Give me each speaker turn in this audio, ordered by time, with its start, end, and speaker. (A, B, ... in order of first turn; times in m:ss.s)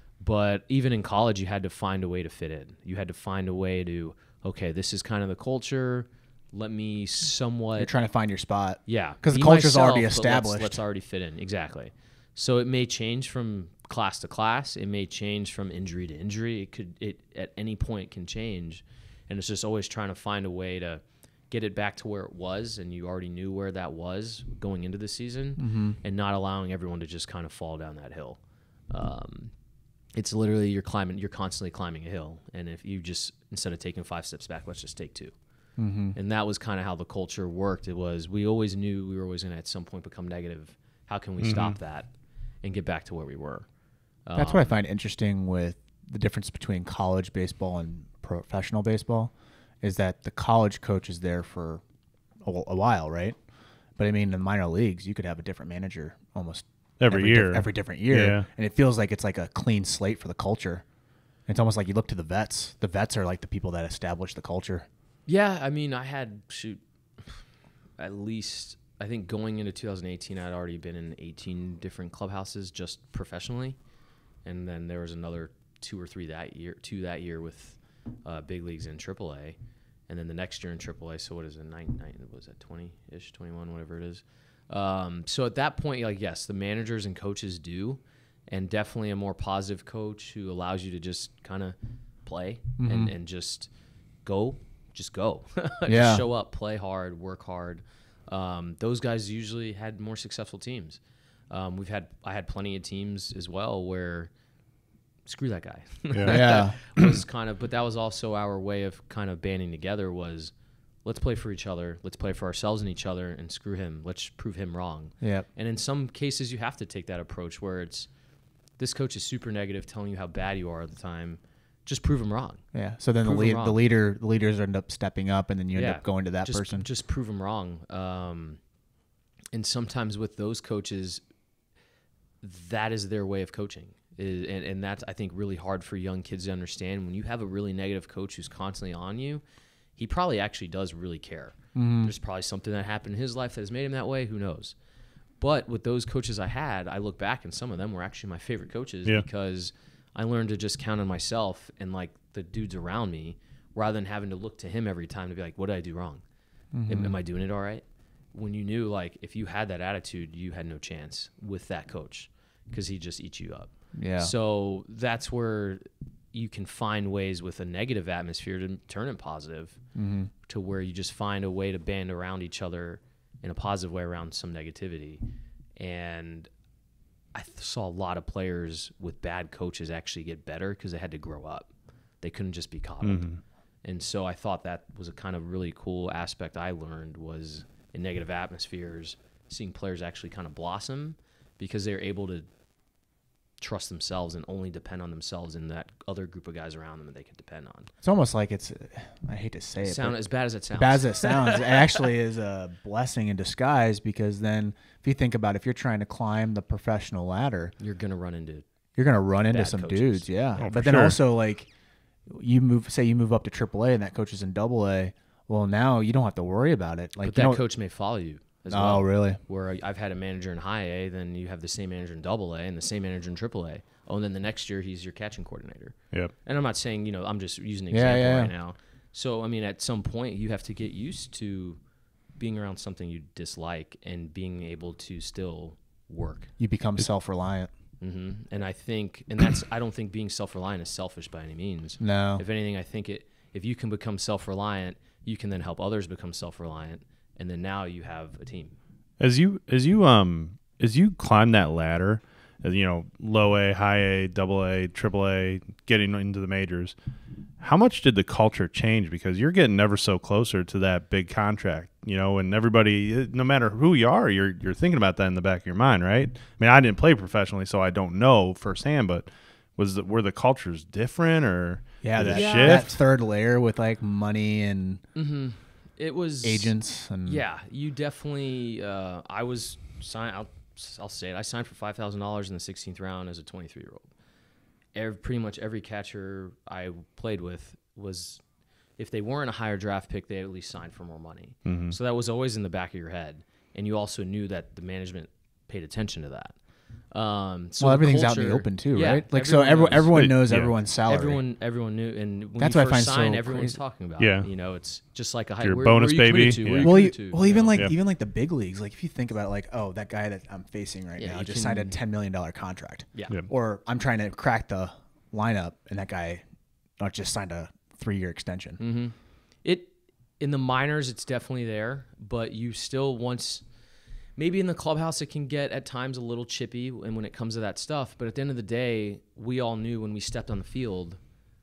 0:00.2-0:07.9 A
0:07.8-0:10.8 B
0:08.9-0:29.5 A
0:25.6-0:26.0 B
0:30.1-0:35.3 A
0:35.8-0:36.2 B
0:36.1-0:42.1 A
0:41.4-0:41.7 C
0:42.6-0:43.6 A
0:44.2-0:44.7 A
0:44.4-0:51.8 B
0:52.4-0:53.4 B
0:54.0-1:00.8 B
0:57.0-0:58.5 C
1:01.5-1:04.9 B
1:05.3-1:07.4 A
1:08.0-1:13.8 A
1:14.4-1:19.6 A
1:20.1-1:33.7 A
1:32.8-1:33.1 B
1:34.2-1:41.0 A
1:35.9-1:36.2 B
1:41.5-1:44.3 A
1:45.2-1:50.5 A
1:46.1-1:46.4 C
1:46.3-1:46.8 B
1:51.0-1:58.1 A
1:55.2-1:55.4 B
1:58.8-2:02.6 A
2:02.7-2:06.9 B
2:03.2-2:03.8 A
2:05.7-2:08.6 A
2:09.5-2:11.2 A
2:12.4-2:19.4 A
2:20.0-2:24.7 A
2:21.7-2:22.1 B
2:25.4-2:36.2 A
2:36.7-2:37.2 B
2:36.9-2:49.8 A
2:44.0-2:44.3 B
2:49.9-2:50.3 B
2:50.4-2:55.2 A
2:55.8-2:56.5 A
2:57.3-3:01.7 A
3:02.2-3:03.3 A
3:03.0-3:03.4 C
3:03.8-3:12.4 A
3:13.6-3:17.9 A
3:18.0-3:20.2 B
3:19.8-3:22.0 A
3:20.7-3:27.7 B
3:27.8-3:28.6 A
3:29.0-3:31.7 B
3:29.5-3:30.3 A
3:30.6-3:31.2 C
3:32.3-3:37.6 B
3:37.2-3:51.8 A
3:38.7-3:39.4 B
3:47.9-3:48.5 B
3:52.4-3:56.5 A
3:56.6-3:57.7 B
3:58.0-4:08.8 A
4:02.0-4:02.4 B
4:09.2-4:16.9 C
4:17.6-4:33.0 C
4:32.0-4:35.0 B
4:32.3-4:32.9 A
4:35.1-4:44.0 A
4:36.4-4:37.4 B
4:44.9-4:48.4 A
4:49.0-4:56.5 A
4:51.6-4:52.0 C
4:57.1-5:00.2 A
4:57.8-5:01.4 B
5:00.1-5:00.7 C
5:01.0-5:07.8 A
5:02.6-5:03.8 B
5:04.2-5:04.5 C
5:05.6-5:06.9 C
5:06.8-5:16.4 B
5:11.2-5:12.0 A
5:17.0-5:18.8 B
5:18.8-5:23.6 A
5:24.4-5:31.2 A